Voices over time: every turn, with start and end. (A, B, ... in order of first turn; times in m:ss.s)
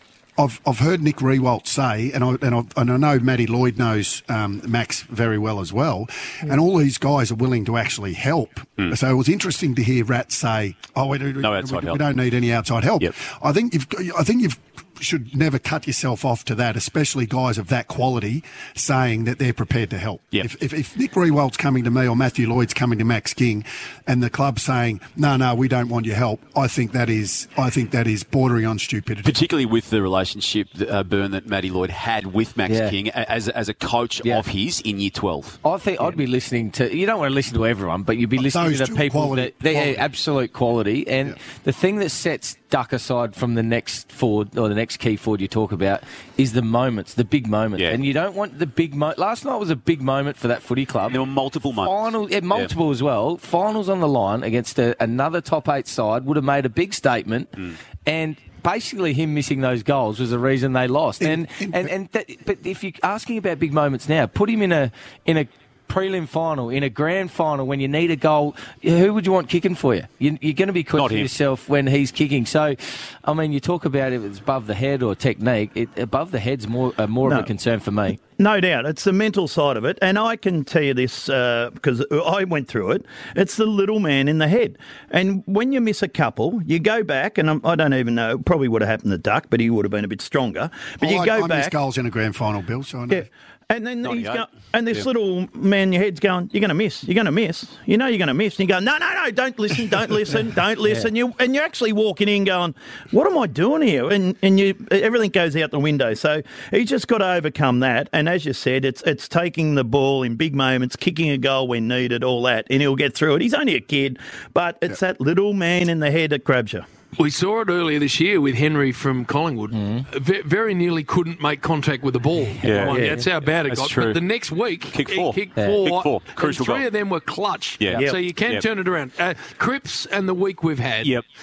0:00.4-0:29.4 A
0:11.4-0:12.0 B
0:29.2-0:35.6 B
0:32.7-0:33.0 C
0:35.6-0:51.2 C
0:38.4-0:40.0 A
0:51.1-0:52.7 B
0:51.8-1:18.2 C
1:01.2-1:01.9 A
1:11.0-1:11.3 B
1:17.2-1:17.5 D
1:18.4-1:31.7 D
1:31.0-1:33.3 A
1:33.1-1:56.8 D
1:34.0-1:35.0 B
1:57.2-2:11.1 E
1:59.7-2:00.0 C
2:02.6-2:04.2 B
2:02.8-2:03.2 C
2:04.9-2:06.9 B
2:07.8-2:08.6 B